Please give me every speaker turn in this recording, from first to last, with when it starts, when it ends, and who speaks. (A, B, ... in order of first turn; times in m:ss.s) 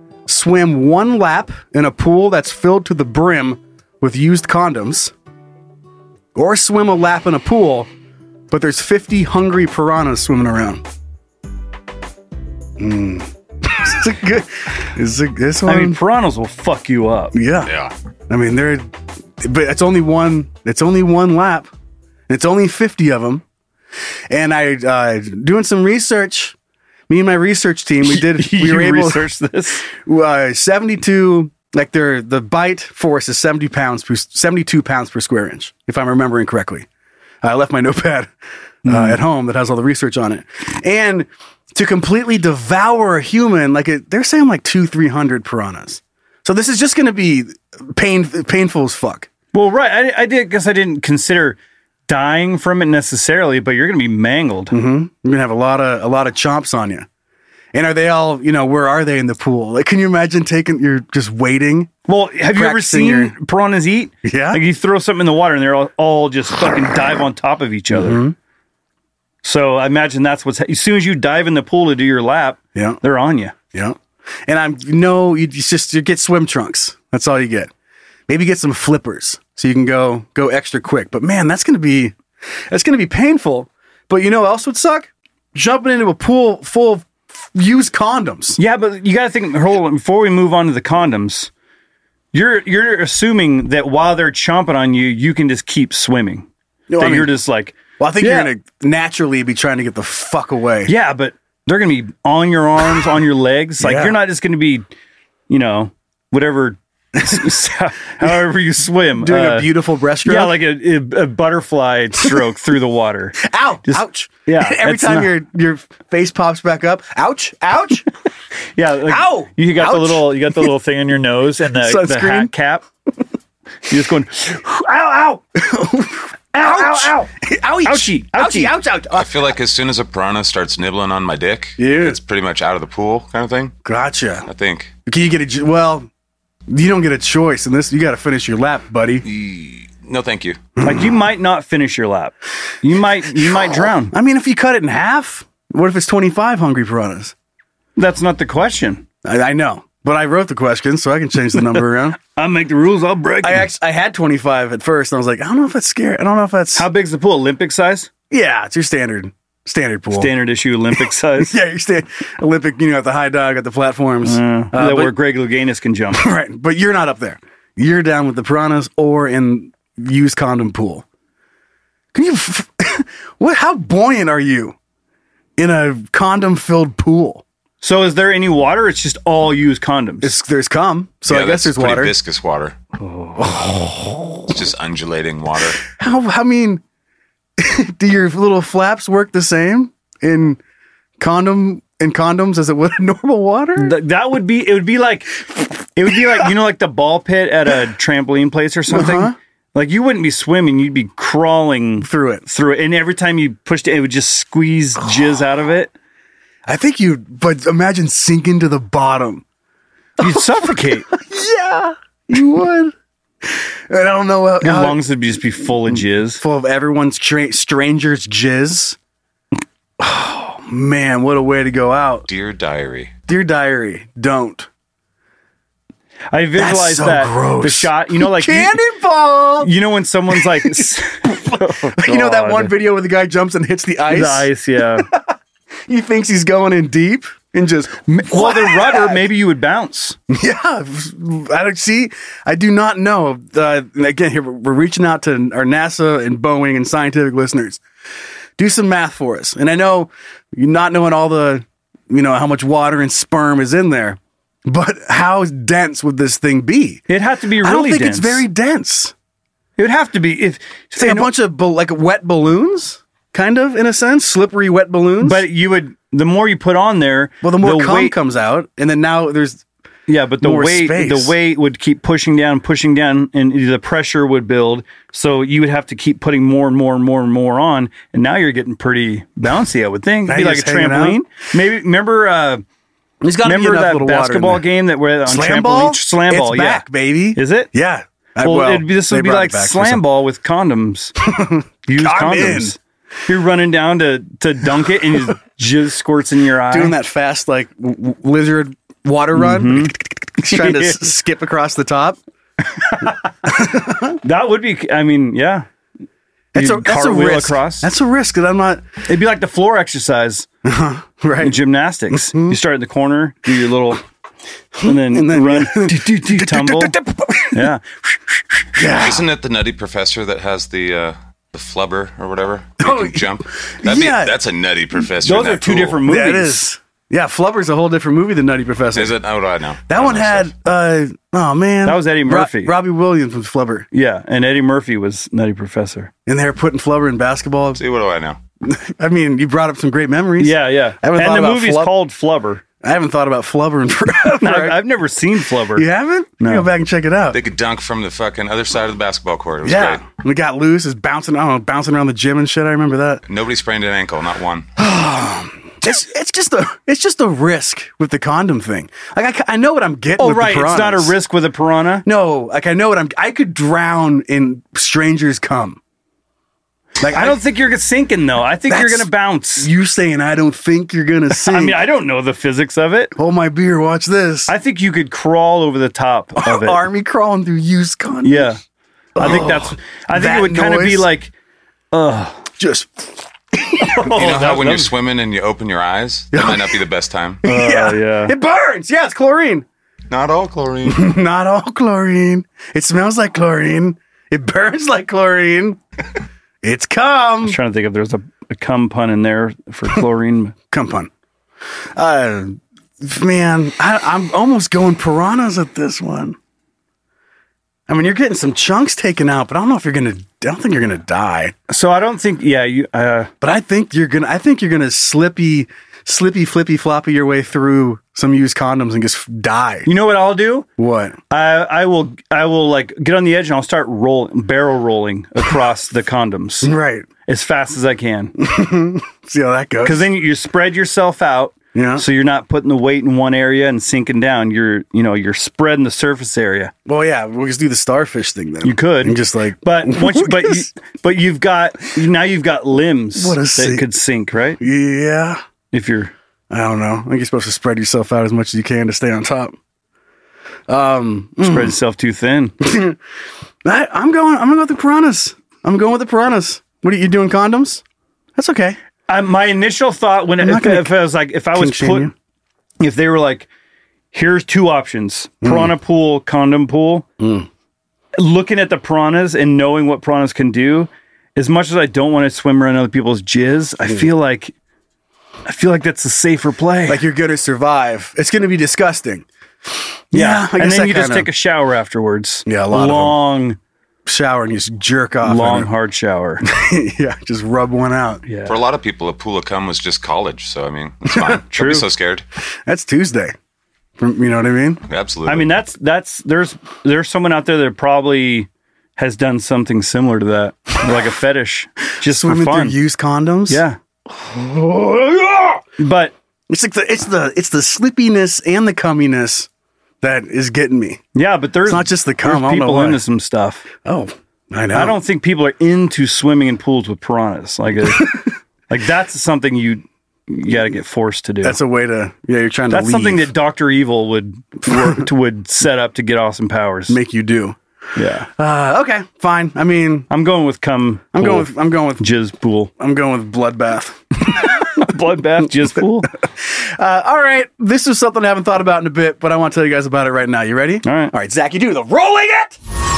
0:00.3-0:05.1 A
0:06.3-0:07.9 A
0:08.5-0:10.8 A
0:12.8-0:16.0 A
0:15.7-0:17.4 B
0:17.3-0:17.7 A
0:17.6-0:17.9 C
0:18.3-0:18.9 A
0:19.4-0:21.7 A
0:22.3-0:23.4 A
0:24.3-0:26.6 A
0:27.1-0:29.3 A
0:28.0-0:29.9 B
0:29.9-0:36.9 A
0:37.4-0:38.3 A
0:38.8-0:49.3 A
0:38.9-0:39.2 B
0:49.5-0:51.6 B
0:52.1-0:54.8 B
0:54.7-0:57.1 A
0:57.7-1:01.9 A
1:02.1-1:08.2 B
1:02.5-1:03.3 A
1:04.2-1:04.6 A
1:07.9-1:08.4 A
1:09.4-1:13.6 B
1:12.8-1:13.0 A
1:13.7-1:17.7 A
1:18.3-1:22.2 A
1:22.7-1:28.6 A
1:28.6-1:31.5 B
1:32.3-1:36.5 B
1:36.9-1:37.3 A
1:37.0-1:38.5 B
1:38.0-1:40.9 A
1:40.9-1:44.9 B
1:43.8-1:44.2 A
1:45.5-1:49.7 B
1:47.2-1:47.5 A
1:49.2-1:50.6 A
1:50.2-1:55.3 B
1:53.4-1:58.1 A
1:58.8-2:02.8 B
1:59.0-2:00.7 A
2:01.7-2:02.5 A
2:03.9-2:05.4 B
2:05.6-2:09.6 A
2:06.5-2:07.3 B
2:07.8-2:08.7 B
2:09.1-2:13.7 C
2:11.8-2:12.2 A
2:13.8-2:14.5 A
2:14.4-2:14.9 C
2:15.0-2:16.1 A
2:16.7-2:19.2 A
2:19.2-2:20.6 C
2:20.8-2:21.1 A
2:20.8-2:24.1 B
2:23.4-2:27.3 A
2:28.0-2:29.0 B
2:29.2-2:32.2 A
2:32.4-2:33.7 B
2:33.4-2:36.9 A
2:36.8-2:38.1 B
2:38.3-2:40.3 A
2:40.1-2:41.5 B
2:41.0-2:45.1 A
2:44.2-2:46.2 B
2:46.1-2:51.0 A
2:52.1-2:54.8 A
2:55.6-2:57.4 A
2:57.8-3:00.3 B
3:00.2-3:02.1 A
3:01.3-3:02.8 C
3:03.0-3:03.6 B
3:03.4-3:04.5 A
3:04.5-3:05.8 C
3:05.9-3:06.8 A
3:07.6-3:10.6 A
3:11.2-3:13.9 A
3:13.8-3:25.9 B
3:18.9-3:19.4 A
3:22.0-3:22.4 A
3:26.6-3:29.4 A
3:30.2-3:35.0 A
3:30.2-3:31.1 B
3:34.6-3:36.4 B
3:35.9-3:39.0 A
3:40.0-3:42.3 A
3:42.3-3:43.1 C
3:43.3-3:44.7 A
3:46.3-3:48.8 B
3:46.5-3:49.7 A
3:49.6-3:52.8 B
3:50.3-3:55.3 A
3:54.1-3:55.1 B
3:55.9-3:59.2 A
3:58.1-4:00.2 B
4:00.3-4:07.8 A
4:08.6-4:17.0 A
4:17.1-4:18.4 B
4:17.6-4:19.1 A
4:19.8-4:21.3 B
4:21.0-4:25.4 A
4:25.2-4:28.1 B
4:27.4-4:29.6 A
4:30.1-4:42.6 B
4:30.4-4:31.4 A
4:40.3-4:41.2 A
4:43.2-4:44.6 A
4:43.4-4:47.7 B
4:45.2-4:50.0 A
4:48.4-4:51.2 B
4:51.2-4:52.8 A
4:51.9-4:57.0 B
4:56.7-5:02.2 A
4:59.4-5:01.1 B
5:02.8-5:03.3 B
5:03.4-5:04.2 A
5:04.2-5:05.6 B
5:06.5-5:08.9 A
5:06.6-5:07.9 B
5:09.1-5:10.5 B
5:10.6-5:11.6 A
5:11.4-5:14.0 B
5:12.1-5:12.6 A
5:14.8-5:17.7 A
5:14.8-5:16.9 B
5:17.5-5:18.9 B
5:18.8-5:19.3 A
5:18.9-5:26.0 C
5:22.8-5:24.4 A
5:25.2-5:26.6 B
5:26.0-5:29.2 A
5:28.9-5:30.5 C
5:29.9-5:33.9 A
5:31.8-5:32.8 B
5:33.9-5:36.1 B
5:36.2-5:37.8 A
5:37.8-5:38.4 C
5:38.6-5:41.9 A
5:40.4-5:42.6 B
5:42.8-5:44.8 A
5:44.4-5:45.9 B
5:45.7-5:47.4 A
5:46.4-5:46.7 B
5:47.3-5:50.0 C
5:49.6-5:53.2 A
5:53.3-5:54.7 C
5:54.8-6:01.1 A
6:00.2-6:02.0 B
6:02.0-6:05.8 A
6:07.0-6:07.4 A
6:07.1-6:09.7 B
6:08.7-6:11.8 A
6:11.4-6:13.1 B
6:13.2-6:14.5 A
6:14.5-6:16.8 B
6:16.4-6:18.6 A
6:18.2-6:18.6 B
6:19.2-6:21.1 A
6:19.2-6:21.3 B
6:21.9-6:22.4 B
6:22.6-6:24.3 A
6:23.8-6:24.9 B
6:24.1-6:27.4 C
6:26.3-6:26.8 A
6:27.4-6:29.6 A
6:27.4-6:28.3 B
6:30.1-6:31.1 C
6:30.8-6:35.8 A
6:36.6-6:37.6 A
6:37.4-6:40.5 B
6:40.7-6:41.1 A
6:42.0-6:46.4 A
6:47.9-6:51.5 A
6:51.7-6:53.3 B
6:53.4-6:59.9 A
6:59.9-7:00.7 B
7:00.8-7:01.2 A
7:01.3-7:06.7 B
7:06.6-7:07.1 A
7:07.3-7:08.4 B
7:08.4-7:10.1 A
7:09.8-7:16.7 B
7:11.8-7:12.0 A
7:16.9-7:20.7 A
7:18.6-7:24.6 B
7:23.1-7:23.8 A
7:24.6-7:25.4 A
7:25.7-7:26.1 B
7:26.5-7:29.6 A
7:30.7-7:31.8 A
7:31.4-7:32.5 B
7:32.6-7:33.0 A
7:33.6-7:37.8 A
7:38.4-7:38.8 A
7:39.1-7:42.1 B
7:40.4-7:41.0 A
7:41.5-7:42.1 A
7:42.8-7:43.5 B
7:44.1-7:47.0 B
7:45.4-7:45.7 A
7:47.2-7:47.5 A
7:48.2-7:54.5 B
7:55.5-7:57.0 B
7:56.9-7:59.2 A
8:00.1-8:01.3 A
8:00.1-8:03.6 B
8:02.5-8:03.2 A
8:04.0-8:05.7 A
8:05.2-8:06.5 B
8:06.4-8:08.2 A
8:08.2-8:08.6 B
8:08.5-8:12.2 C
8:11.0-8:11.8 A
8:11.6-8:11.8 B
8:12.6-8:13.3 A
8:14.0-8:14.8 A
8:14.9-8:15.5 C
8:15.2-8:22.8 B
8:22.0-8:25.6 A
8:23.5-8:23.8 B
8:25.8-8:26.1 B
8:26.5-8:29.5 A
8:30.0-8:31.0 A
8:31.1-8:33.7 B
8:31.6-8:33.0 A
8:33.8-8:35.0 A
8:34.7-8:41.6 B
8:37.9-8:38.2 A
8:41.4-8:43.3 A
8:42.7-8:47.0 B
8:44.7-8:45.0 A
8:46.9-8:47.6 A
8:48.0-8:48.3 B
8:48.4-8:50.1 A
8:50.1-8:52.7 B
8:51.1-8:52.1 A
8:52.8-8:54.9 A
8:54.4-8:56.1 B
8:56.4-9:02.6 A
9:00.8-9:01.1 B